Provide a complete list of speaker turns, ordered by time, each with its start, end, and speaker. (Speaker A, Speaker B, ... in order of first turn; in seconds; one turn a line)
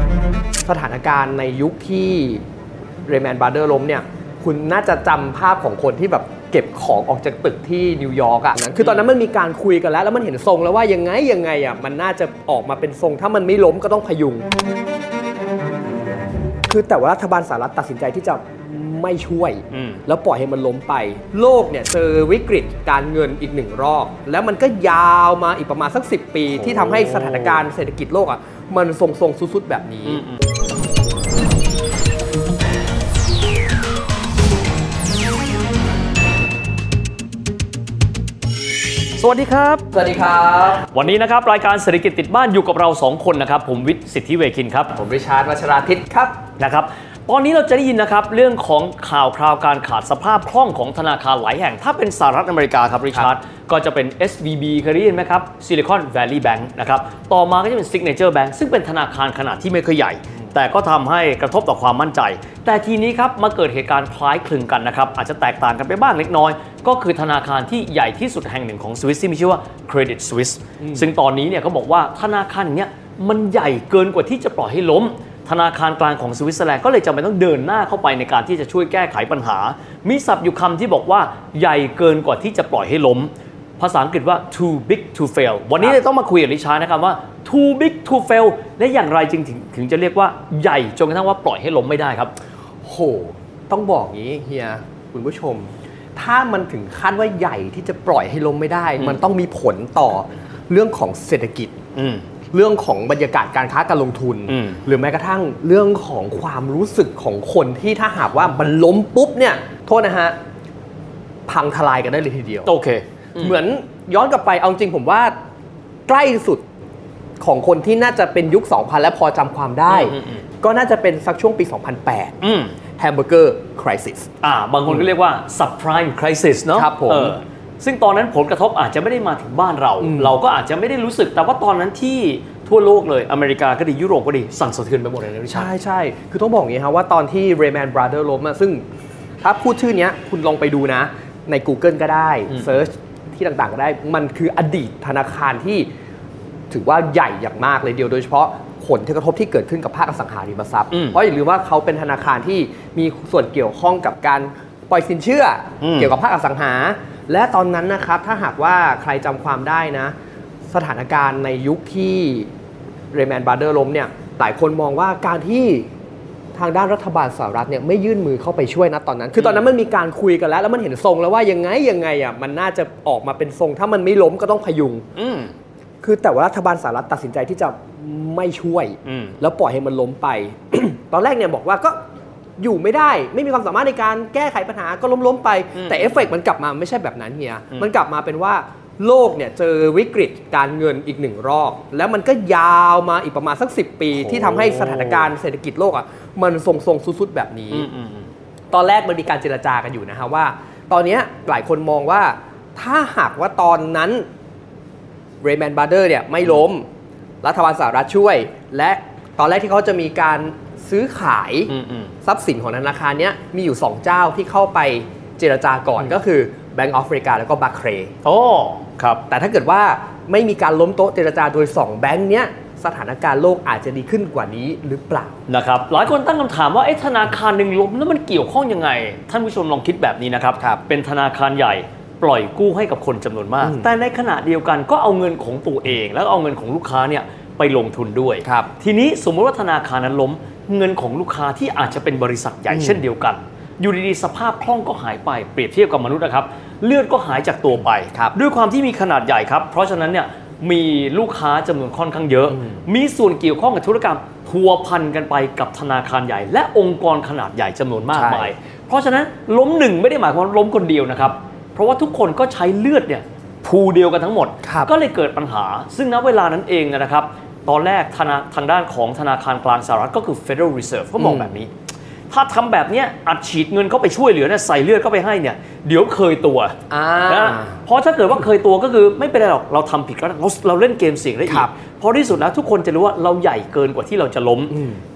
Speaker A: 0.6-2.4
Speaker A: 3.1-14.5
Speaker A: 16.7-30.2
Speaker B: 19.7-20.0
Speaker B: 26.5-27.6
Speaker B: 30.1-30.4
Speaker B: 39.2-39.8
Speaker A: 39.9-40.8
Speaker B: 40.9-44.9
Speaker A: 44.9-46.4
Speaker B: 46.6-92.3
Speaker A: 70.8-71.1
Speaker A: 92.8-101.7
Speaker B: 101.9-102.2
Speaker A: 102.5-110.3
Speaker B: 104.5-104.8
Speaker A: 111.5-112.7
Speaker B: 112.7-113.5
Speaker A: 113.4-115.3
Speaker A: 116.1-116.6
Speaker A: 117.4-122.3
Speaker B: 119.9-120.4
Speaker B: 122.4-122.7
Speaker A: 123.0-124.3
Speaker B: 124.4-135.7
Speaker A: 126.7-127.4
Speaker A: 130.0-130.4
Speaker A: 135.5-138.8
Speaker A: 139.4-145.9
Speaker A: 146.7-160.1
Speaker B: 150.9-151.2
Speaker B: 155.8-156.1
Speaker A: 160.7-162.5
Speaker A: 163.1-165.9
Speaker A: 166.5-175.1
Speaker B: 169.4-169.7
Speaker B: 175.1-175.5
Speaker A: 176.0-182.0
Speaker B: 179.0-179.4
Speaker A: 182.6-197.9
Speaker B: 185.8-186.2
Speaker B: 194.1-195.3
Speaker B: 197.7-198.3
Speaker A: 198.7-204.2
Speaker A: 205.4-206.8
Speaker A: 207.4-211.7
Speaker B: 211.7-212.1
Speaker A: 212.2-218.1
Speaker B: 218.2-219.2
Speaker A: 219.3-225.3
Speaker B: 225.5-271.7
Speaker A: 233.6-233.9
Speaker A: 258.1-258.5
Speaker A: 264.6-264.9
Speaker A: 271.2-271.5
Speaker B: 272.3-284.8
Speaker A: 276.9-277.8
Speaker A: 281.4-281.7
Speaker A: 284.7-285.0